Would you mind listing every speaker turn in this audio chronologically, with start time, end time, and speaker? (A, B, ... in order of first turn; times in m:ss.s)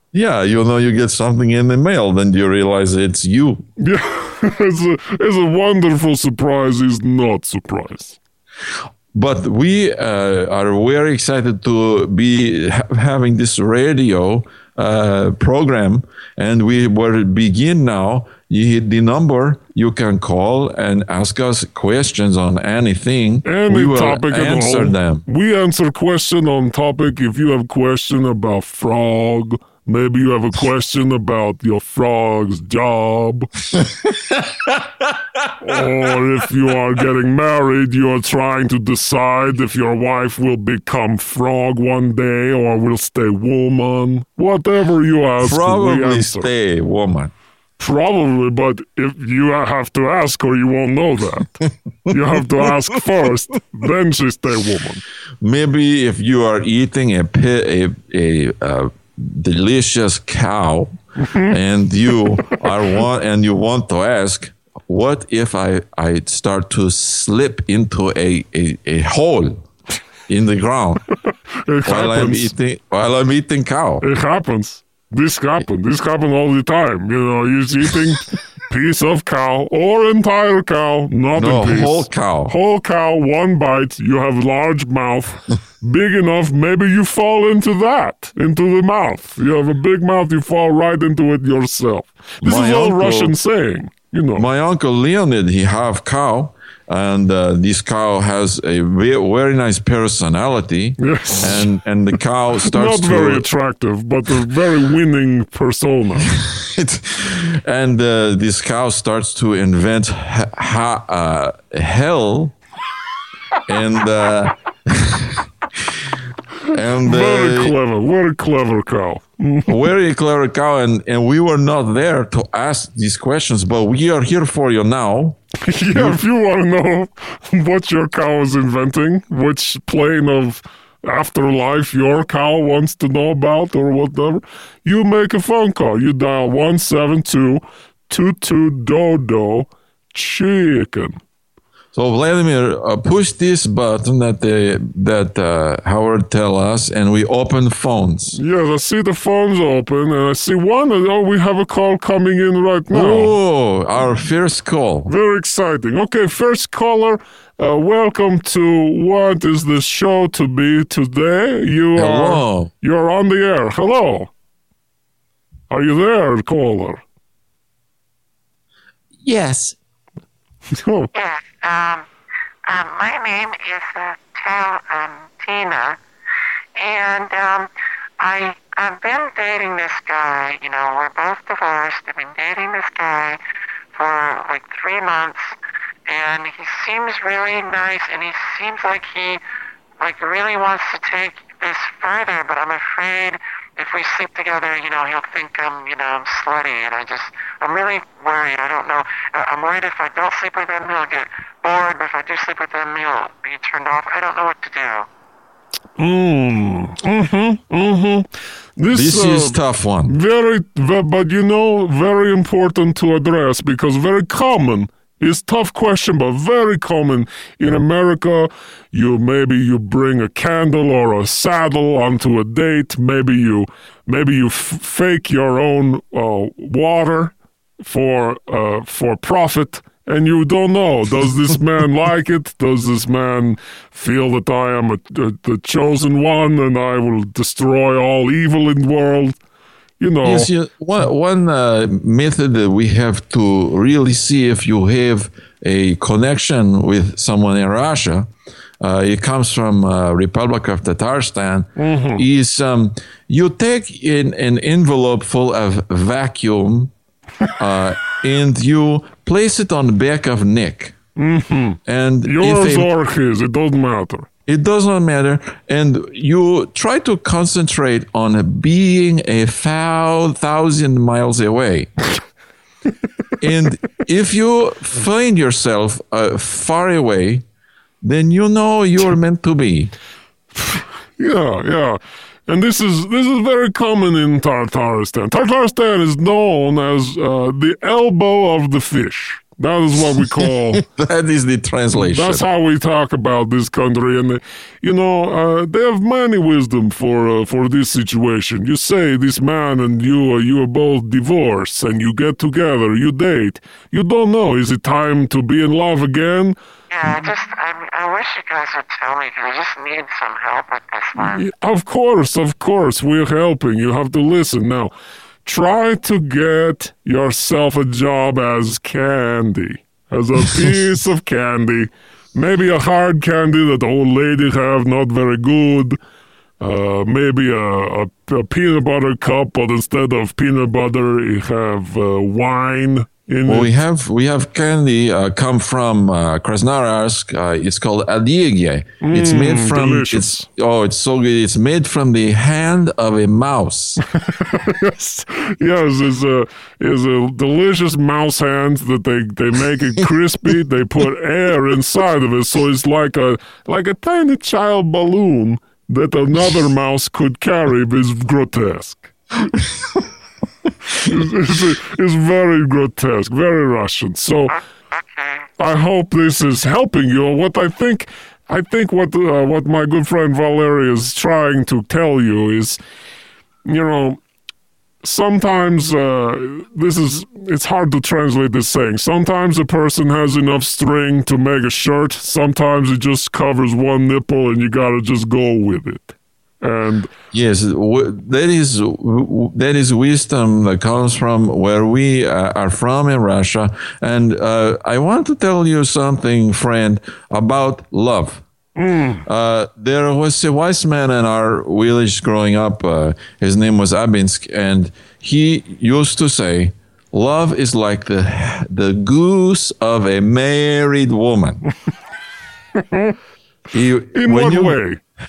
0:00.1-0:03.6 A
0:03.8-0:08.2 B
0:09.1-0:25.2 A
0:23.4-0:33.5 B
0:34.2-0:34.8 A
0:35.6-0:46.5 B
0:45.4-0:47.3 A
0:47.8-0:55.0 B
0:55.4-1:09.6 A
1:10.3-1:11.0 A
1:11.6-1:12.5 B
1:11.8-1:14.0 A
1:14.0-1:34.5 B
1:21.4-1:22.6 A
1:32.4-1:33.3 A
1:34.4-1:43.4 A
1:41.0-1:41.7 B
1:42.6-1:46.3 B
1:46.3-1:52.6 A
1:53.7-1:56.0 A
1:56.7-1:57.8 A
1:57.0-1:59.7 B
1:59.6-2:06.2 A
2:05.6-2:21.2 B
2:21.9-2:28.4 A
2:28.4-2:33.3 B
2:32.9-2:35.1 A
2:35.1-2:44.3 B
2:41.9-2:42.7 A
2:45.7-2:47.0 B
2:49.2-2:49.8 A
2:50.7-2:51.1 B
2:51.1-2:52.0 C
2:52.6-2:56.0 C
2:56.8-3:03.4 C
3:03.9-3:05.6 C
3:06.1-3:09.4 C
3:10.0-3:25.1 C
3:26.0-3:59.4 B
3:28.9-3:30.1 A
4:00.0-4:00.5 B
4:00.2-4:08.3 A
4:08.8-4:16.9 A
4:11.8-4:12.2 B
4:17.6-4:21.0 A
4:21.2-4:24.3 B
4:21.8-4:22.9 A
4:24.4-4:31.9 A
4:33.4-4:37.4 A
4:38.0-4:39.9 A
4:41.2-4:50.8 B
4:50.8-4:52.4 A
4:51.9-5:06.6 B
5:06.9-5:11.4 C
5:11.2-5:14.9 B
5:15.4-5:26.0 B
5:26.6-5:33.7 B
5:33.4-5:44.0 A
5:39.0-5:40.4 B
5:44.3-5:59.1 B
6:00.9-6:04.6 B
6:05.6-6:12.8 B
6:13.6-6:14.2 B
6:15.0-6:27.1 B
6:27.3-6:38.4 A
6:38.8-6:39.2 B
6:39.2-6:51.6 A
6:53.7-6:54.8 A
6:54.1-6:55.0 B